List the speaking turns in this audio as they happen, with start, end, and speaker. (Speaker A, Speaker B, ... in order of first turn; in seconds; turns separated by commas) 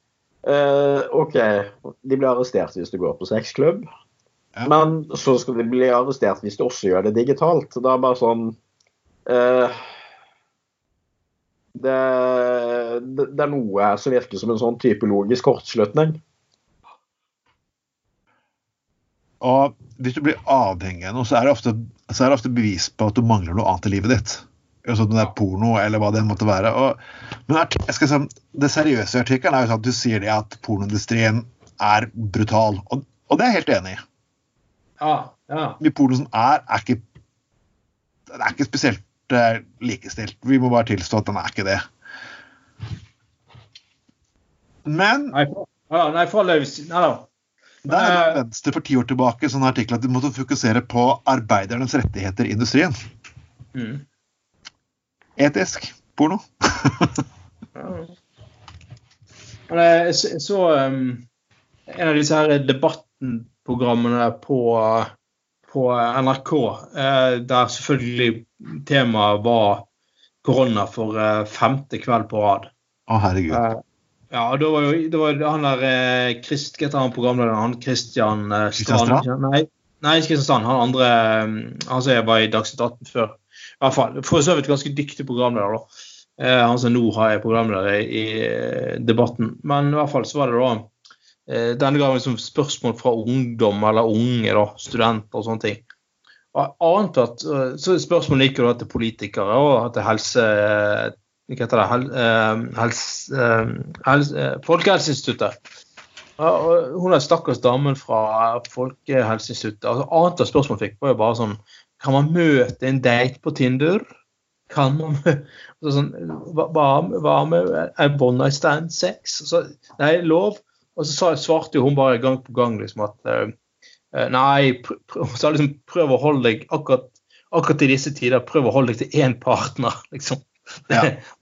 Speaker A: 0.5-3.9, Speaker A: 4.7-8.6, Speaker A: 9.3-9.8, Speaker A: 11.8-16.2, Speaker B: 19.4-34.0, Speaker C: 35.0-35.8, Speaker B: 35.8-37.0, Speaker B: 38.3-41.8, Speaker B: 44.9-45.4, Speaker C: 45.3-47.3, Speaker C: 47.8-48.4, Speaker B: 47.9-52.9, Speaker C: 53.7-54.0, Speaker B: 55.4-57.2, Speaker C: 57.8-58.1, Speaker C: 59.7-61.2, Speaker C: 61.9-65.1, Speaker C: 65.7-69.9, Speaker C: 70.4-72.7, Speaker B: 73.1-73.6, Speaker C: 73.5-73.8, Speaker C: 74.3-85.9, Speaker B: 78.8-79.3, Speaker C: 86.4-90.9, Speaker C: 91.5-95.8, Speaker C: 96.5-105.5, Speaker C: 106.4-114.0, Speaker C: 114.7-123.5, Speaker C: 124.1-131.2